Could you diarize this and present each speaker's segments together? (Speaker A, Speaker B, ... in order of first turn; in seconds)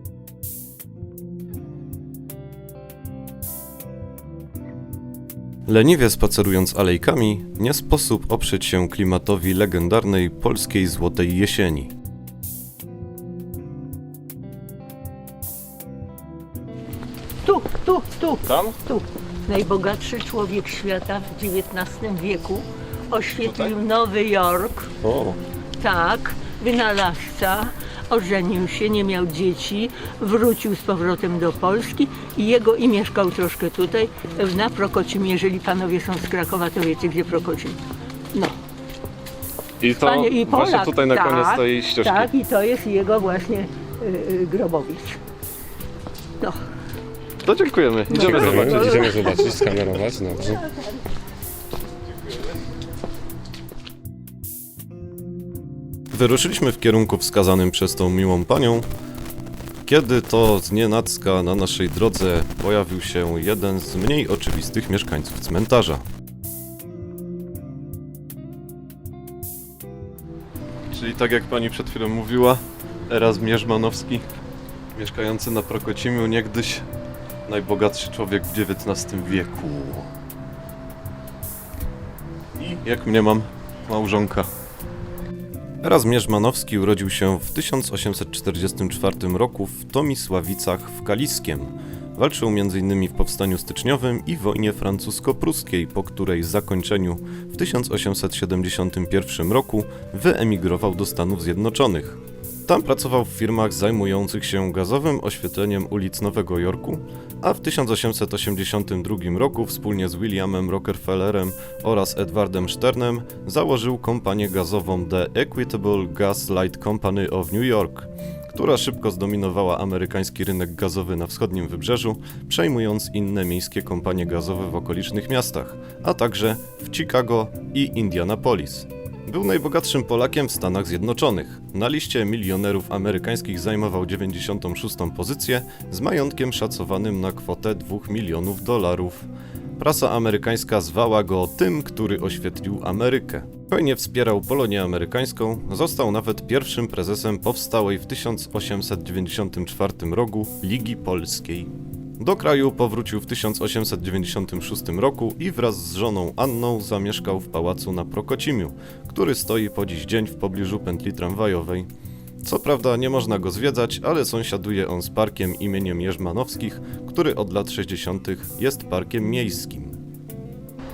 Speaker A: 5.7-11.9, 18.4-18.8, 23.4-23.7, 25.0-25.4, 39.8-42.3, 47.4-49.6, 56.1-58.9, 59.9-66.0, 70.9-74.2, 74.9-76.8, 77.5-80.1, 82.6-84.5, 85.8-161.9, 162.4-170.0
Speaker B: 17.4-24.9, 25.8-37.8, 40.0-45.2, 48.1-49.7, 50.4-51.0
Speaker C: 48.1-50.6